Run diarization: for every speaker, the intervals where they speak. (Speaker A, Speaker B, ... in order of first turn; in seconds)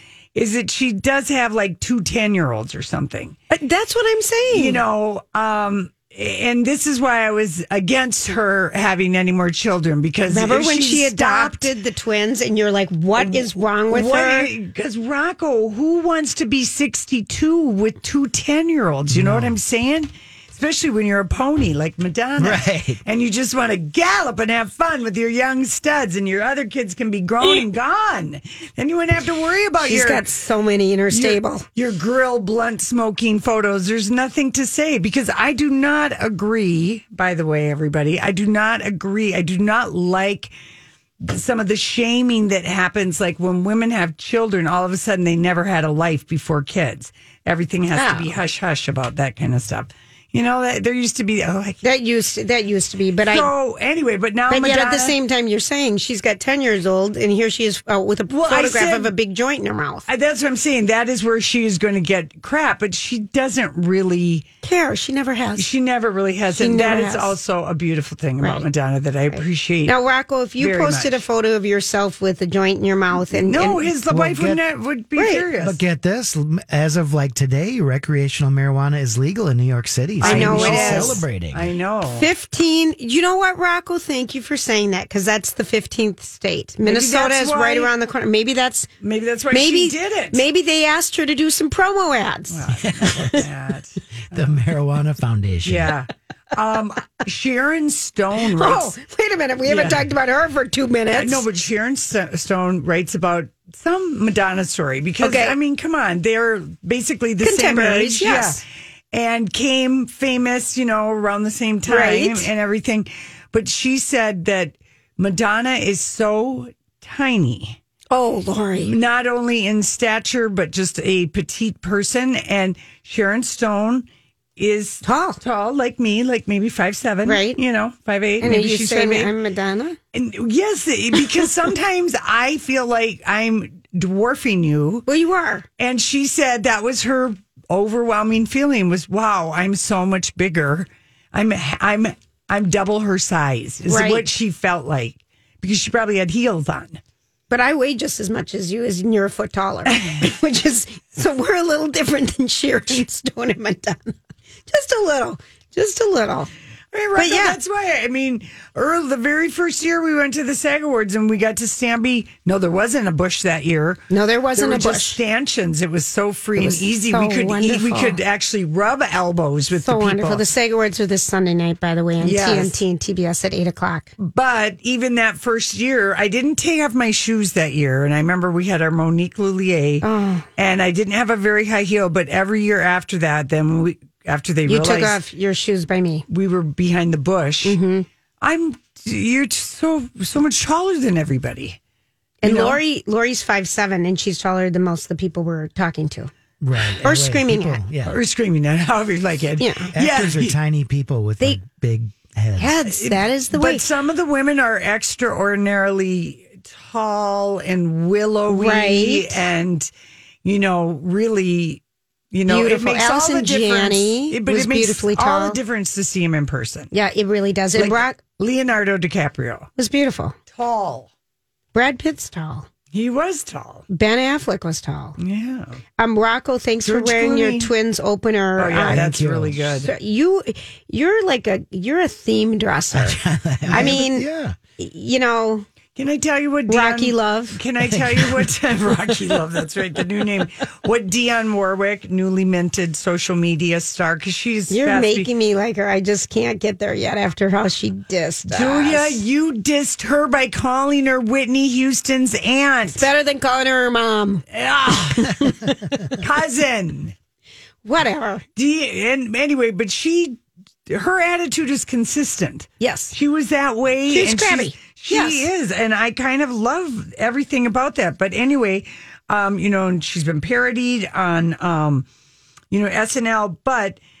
Speaker A: 0.3-3.4, 4.5-11.7, 13.2-30.2, 31.1-40.5, 41.2-51.8, 53.3-55.1, 58.3-59.1, 60.1-64.5, 65.5-69.9, 70.6-71.2, 73.3-75.8, 80.2-82.3, 86.8-87.9, 89.0-90.4, 92.5-94.5, 95.6-98.9, 99.6-100.0, 101.1-117.8, 118.8-124.0, 124.6-129.3, 130.1-135.0, 135.8-147.0, 156.9-164.0, 164.6-170.4, 172.2-172.8, 174.2-180.0, 180.6-185.2, 186.3-187.8, 188.4-191.8, 192.4-192.8, 198.0-200.5, 202.8-209.9, 210.4-211.8, 212.3-216.9, 217.7-219.7, 220.5-221.1, 222.9-223.8, 225.2-225.8, 226.8-227.7, 228.6-229.9, 233.7-234.0, 235.9-245.3, 248.5-253.1, 254.5-255.5, 256.2-257.1, 258.6-272.1, 272.7-274.0
Speaker B: 3.5-4.8, 10.3-14.5, 29.8-31.6, 47.9-48.3, 51.8-53.5, 54.5-60.1, 64.6-65.7, 66.5-67.3, 69.3-73.8, 75.2-75.5, 80.2-81.2, 82.2-88.9, 89.5-93.4, 98.5-101.4, 105.2-105.6, 107.4-108.6, 111.8-112.5, 118.1-118.9, 125.0-125.4, 127.2-127.6, 128.4-130.0, 135.1-135.7, 143.8-144.3, 147.5-154.1, 154.7-156.5, 157.2-157.6, 164.1-165.2, 166.6-168.2, 169.8-174.2, 180.0-180.5, 184.7-186.2, 187.6-188.1, 192.4-196.3, 197.0-197.9, 199.6-199.9, 202.6-203.8, 208.5-209.4, 212.4-215.6, 216.9-218.2, 219.8-220.4, 221.7-222.7, 223.9-225.2, 226.0-229.1, 229.8-233.2, 233.7-234.3, 234.8-235.7, 236.7-237.6, 244.7-249.2, 252.9-254.4, 255.1-255.7, 257.8-258.4, 262.8-263.1, 264.1-265.5
Speaker C: 19.1-19.6, 22.4-23.0, 74.1-74.6, 75.6-81.7, 93.0-93.4, 94.3-95.9, 196.6-198.2, 199.9-202.7, 228.8-229.7, 232.9-234.6, 237.9-238.2